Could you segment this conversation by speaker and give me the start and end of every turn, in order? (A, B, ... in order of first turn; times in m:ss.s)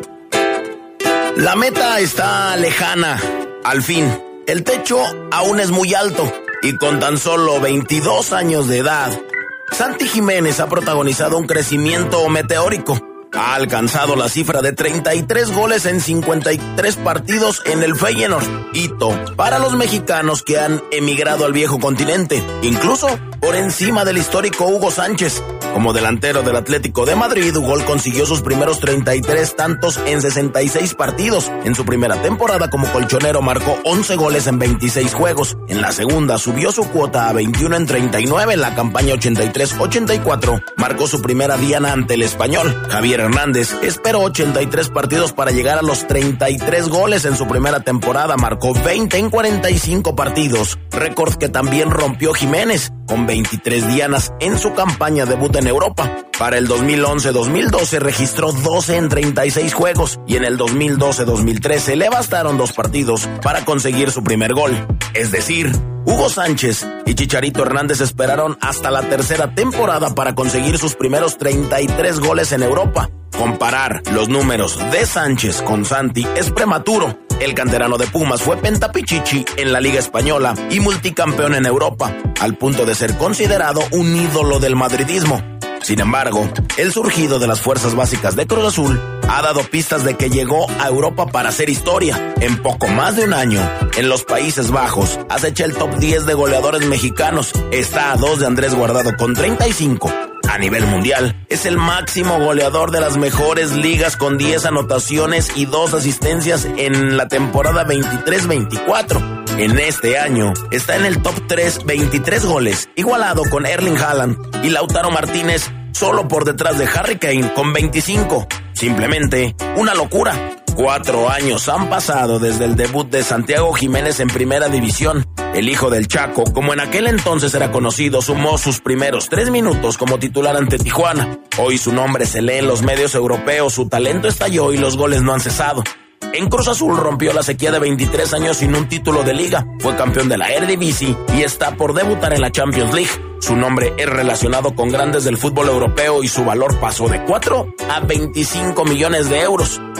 0:01.3-2:29.8 A